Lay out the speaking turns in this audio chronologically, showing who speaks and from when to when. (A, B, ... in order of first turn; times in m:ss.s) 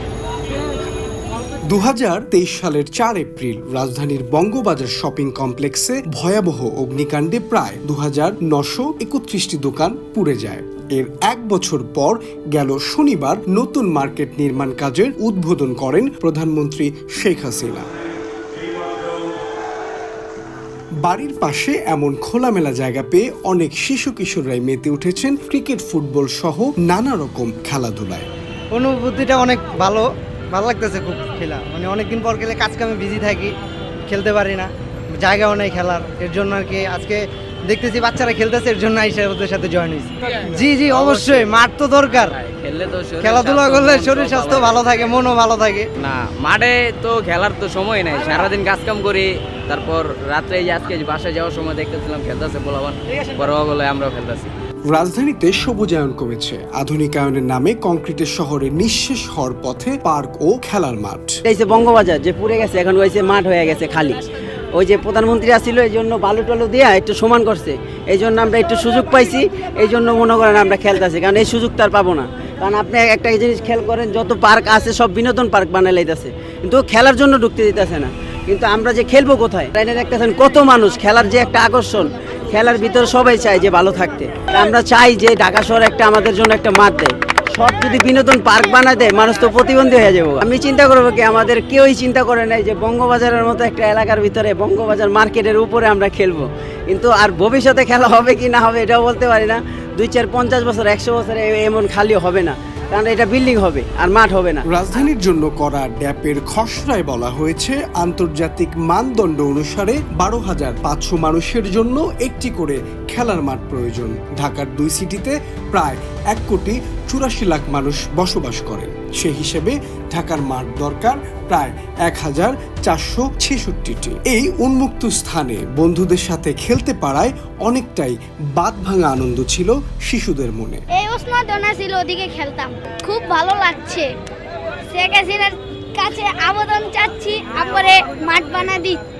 0:01.6-0:17.9 A
0:21.0-0:28.3 A
0:28.7-0:33.5 B
0:34.1-0:42.4 B
0:40.4-0:41.5 C
0:42.1-0:45.1 C
0:43.2-0:45.9 B
0:46.0-0:54.5 C
0:54.9-1:01.4 A
1:01.4-1:04.2 D
1:04.7-1:44.6 D
1:44.6-2:10.8 A
2:10.9-2:14.1 E
2:14.9-2:19.0 E